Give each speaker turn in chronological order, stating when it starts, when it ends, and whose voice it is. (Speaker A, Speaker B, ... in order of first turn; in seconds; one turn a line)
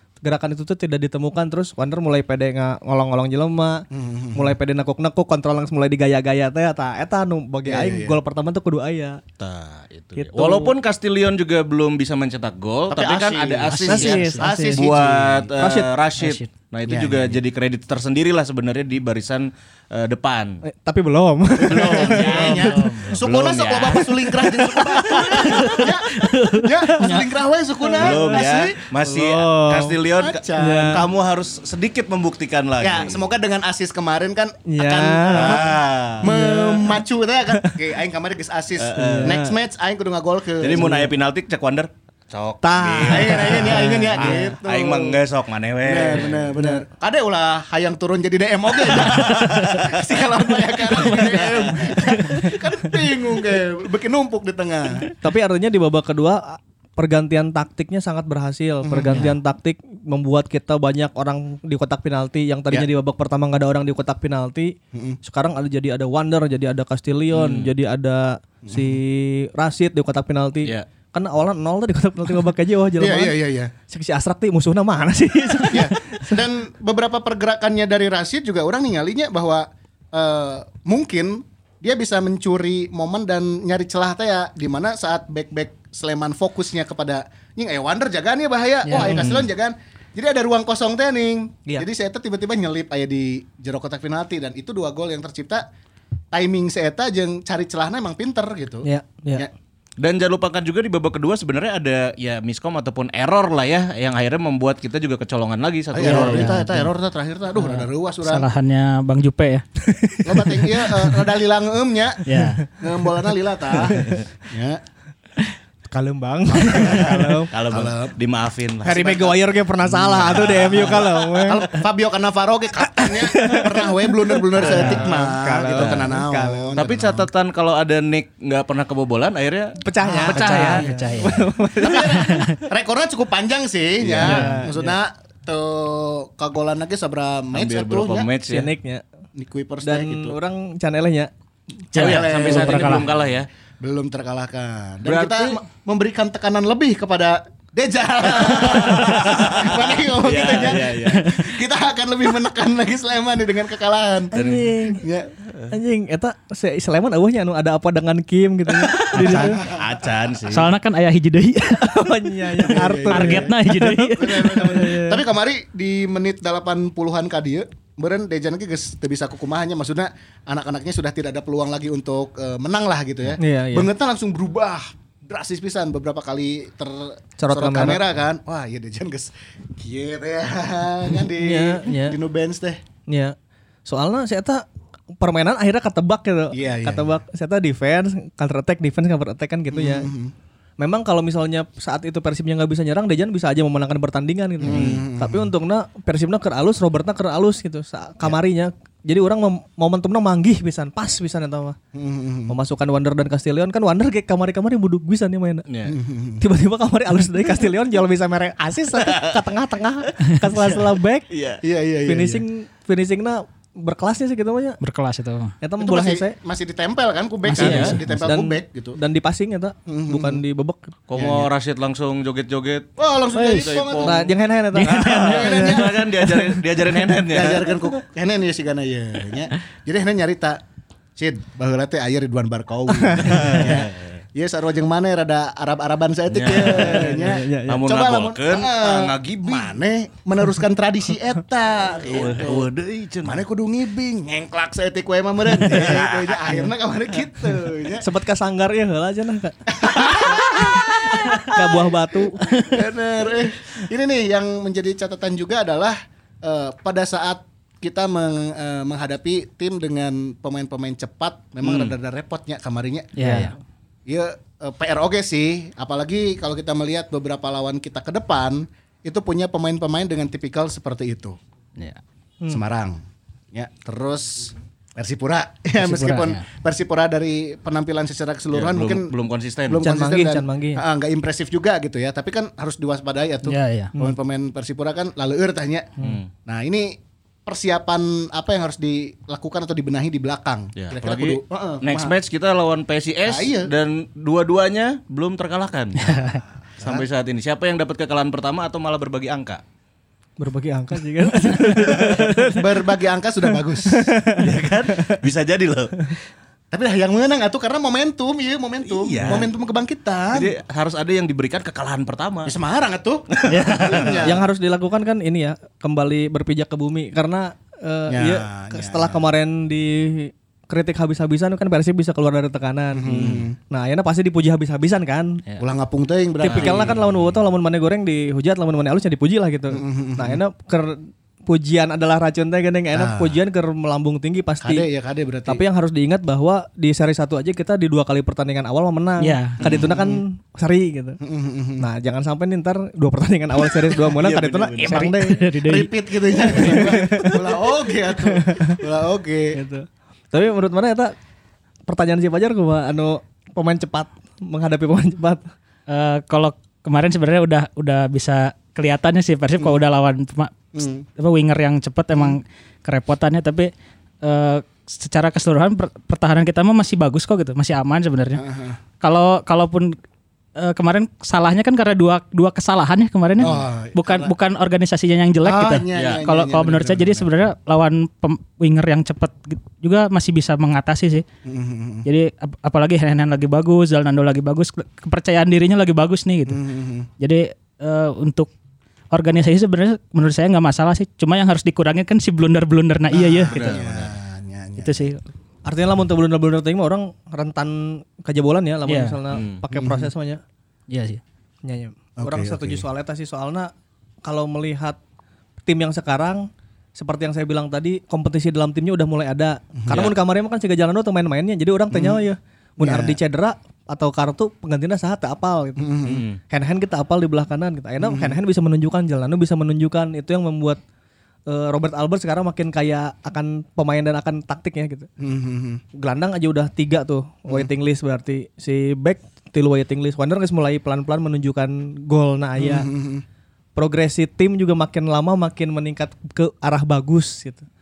Speaker A: 0.2-9.2
Speaker B: 3.9-4.5
Speaker B: 7.6-8.2
Speaker C: 9.4-20.6
Speaker A: 10.2-10.7
Speaker B: 12.9-15.5
Speaker D: 13.7-14.4
Speaker A: 13.9-14.8
Speaker A: 15.6-15.9
Speaker D: 16.2-16.4
Speaker B: 16.9-17.4
Speaker A: 20.6-22.6
Speaker B: 21.6-28.8
Speaker C: 21.6-24.2
Speaker D: 22.3-23.1
Speaker A: 24.4-27.2
Speaker A: 27.8-30.0
Speaker C: 28.0-33.2
Speaker B: 30.2-31.1
Speaker A: 30.6-31.0
Speaker B: 32.8-41.1
Speaker A: 34.6-37.0
Speaker C: 35.3-36.3
Speaker A: 37.5-37.8
Speaker C: 38.8-39.4
Speaker A: 39.0-39.6
Speaker C: 40.6-46.5
Speaker A: 40.8-41.1
Speaker A: 42.6-44.5
Speaker B: 43.0-45.2
Speaker B: 45.8-55.1
Speaker A: 46.5-46.8
Speaker C: 48.9-50.0
Speaker C: 50.8-52.0
Speaker A: 51.0-52.5
Speaker A: 55.1-73.4
Speaker B: 58.8-59.3
Speaker B: 64.9-65.2
Speaker C: 67.3-67.7
Speaker B: 68.6-69.0
Speaker B: 73.0-73.7
Speaker A: 73.9-76.4
Speaker B: 75.7-95.7
Speaker D: 88.9-89.2
Speaker A: 88.9-89.3
Speaker C: 89.1-89.4
Speaker B: 96.3-99.5
Speaker A: 98.8-99.5
Speaker C: 100.0-106.6
Speaker B: 105.9-108.5
Speaker D: 106.0-106.8
Speaker D: 107.6-109.7
Speaker A: 109.8-111.1
Speaker B: 110.2-114.8
Speaker D: 112.2-112.6
Speaker A: 113.7-114.2
Speaker A: 115.9-117.5
Speaker B: 116.6-118.2
Speaker C: 116.8-119.2
Speaker A: 118.8-121.8
Speaker B: 118.8-119.4
Speaker C: 120.0-121.3
Speaker B: 120.3-127.3
Speaker A: 122.9-126.7
Speaker C: 124.6-125.1
Speaker C: 125.7-126.1
Speaker C: 126.8-130.9
Speaker A: 129.8-132.6
Speaker B: 130.0-138.3
Speaker D: 130.2-132.6
Speaker C: 134.0-134.3
Speaker A: 134.2-134.9
Speaker D: 134.2-134.6
Speaker C: 137.5-138.7
Speaker A: 138.5-139.0
Speaker B: 139.3-140.4
Speaker A: 139.8-141.3
Speaker D: 141.9-143.1
Speaker C: 141.9-143.5
Speaker B: 142.0-143.2
Speaker B: 143.8-154.3
Speaker C: 145.0-145.6
Speaker C: 148.4-151.3
Speaker D: 151.1-151.4
Speaker A: 154.3-155.0
Speaker C: 154.3-154.7
Speaker B: 154.9-155.3
Speaker A: 155.7-159.6
Speaker C: 158.9-160.7
Speaker B: 159.2-159.9
Speaker D: 160.5-164.9
Speaker A: 161.8-165.2
Speaker B: 162.6-163.5
Speaker B: 164.1-182.8
Speaker A: 173.4-173.9
Speaker A: 177.4-178.0
Speaker A: 181.3-182.2
Speaker A: 183.1-183.3
Speaker A: 183.8-184.6
Speaker A: 185.2-190.1
Speaker B: 186.5-187.2
Speaker B: 189.7-190.3
Speaker A: 190.8-201.8
Speaker B: 194.6-195.5
Speaker C: 194.7-195.0
Speaker B: 201.9-202.5
Speaker A: 202.5-205.7
Speaker C: 205.7-206.0
Speaker B: 205.8-206.4
Speaker A: 206.4-211.3
Speaker C: 209.0-209.3
Speaker C: 211.3-211.6
Speaker B: 211.6-212.4
Speaker A: 212.1-214.8
Speaker D: 214.8-215.5
Speaker A: 215.6-216.3
Speaker B: 215.8-219.0
Speaker D: 217.4-218.3
Speaker A: 217.6-220.9
Speaker C: 217.6-218.0
Speaker B: 219.9-220.4
Speaker C: 221.1-224.3
Speaker B: 221.2-221.5
Speaker B: 223.0-224.3
Speaker D: 223.3-223.7
Speaker A: 224.0-225.6
Speaker D: 224.7-225.8
Speaker C: 224.8-227.8
Speaker B: 225.1-226.0
Speaker B: 227.2-230.6
Speaker B: 231.2-242.7
Speaker A: 232.9-233.7
Speaker C: 233.3-234.0
Speaker C: 236.3-239.8
Speaker A: 236.5-237.8
Speaker C: 242.0-243.4
Speaker B: 243.2-248.0
Speaker C: 245.7-246.4
Speaker A: 248.0-252.6
Speaker B: 249.7-251.5
Speaker B: 252.5-263.1
Speaker C: 261.6-261.9
Speaker D: 263.1-263.5
Speaker A: 263.2-263.5
Speaker B: 264.1-271.4
Speaker B: 272.5-279.1
Speaker D: 275.8-276.4
Speaker C: 278.5-279.8
Speaker B: 279.7-285.9
Speaker A: 279.8-280.8
Speaker D: 283.4-283.9
Speaker C: 286.0-286.3
Speaker B: 286.5-292.1
Speaker C: 290.8-296.2
Speaker B: 293.2-293.7
Speaker D: 296.0-296.4
Speaker B: 296.8-297.1
Speaker C: 296.8-299.6
Speaker A: 300.4-302.7
Speaker B: 301.9-304.1
Speaker A: 303.8-305.2
Speaker C: 304.4-306.1
Speaker B: 306.7-310.5
Speaker C: 308.9-309.5
Speaker C: 310.3-312.5
Speaker B: 312.4-314.4
Speaker C: 313.3-314.2
Speaker D: 313.5-314.0
Speaker A: 314.2-325.4
Speaker B: 318.1-319.2
Speaker B: 322.9-323.6
Speaker C: 323.1-323.4
Speaker B: 325.6-326.9
Speaker C: 326.4-327.1
Speaker A: 326.4-334.9
Speaker B: 329.7-330.4
Speaker B: 332.9-333.4
Speaker B: 334.6-335.6
Speaker A: 335.5-341.2
Speaker D: 339.2-339.6
Speaker B: 339.6-340.2
Speaker B: 341.2-341.9
Speaker A: 341.8-345.5
Speaker C: 344.0-345.2
Speaker D: 344.8-345.9
Speaker B: 345.5-349.6
Speaker A: 346.4-347.6
Speaker A: 348.2-348.8
Speaker A: 349.5-351.1
Speaker A: 351.9-355.5
Speaker D: 355.9-363.7
Speaker B: 360.7-361.0
Speaker B: 362.1-362.4
Speaker D: 364.2-368.4
Speaker B: 368.4-368.8
Speaker D: 369.0-369.9
Speaker D: 370.6-381.2
Speaker B: 373.4-374.3
Speaker B: 375.4-377.3
Speaker C: 375.9-376.2
Speaker B: 381.4-382.1
Speaker D: 382.0-386.6
Speaker B: 386.5-387.1
Speaker D: 387.2-388.5
Speaker D: 389.1-393.8
Speaker B: 393.1-395.1
Speaker C: 393.5-394.1
Speaker D: 394.8-395.2
Speaker A: 395.6-400.4
Speaker D: 398.9-399.2
Speaker C: 399.3-399.6
Speaker B: 399.7-400.1
Speaker D: 400.9-401.2
Speaker A: 401.6-403.7
Speaker B: 402.2-402.9
Speaker A: 404.2-405.0
Speaker A: 405.6-420.8
Speaker B: 409.7-410.1
Speaker B: 411.9-412.2
Speaker B: 412.8-413.2
Speaker B: 415.8-416.2
Speaker C: 416.1-416.4
Speaker B: 418.0-418.4
Speaker A: 421.5-425.1
Speaker B: 425.2-425.8
Speaker A: 425.9-432.9
Speaker B: 432.6-433.2
Speaker A: 433.8-437.7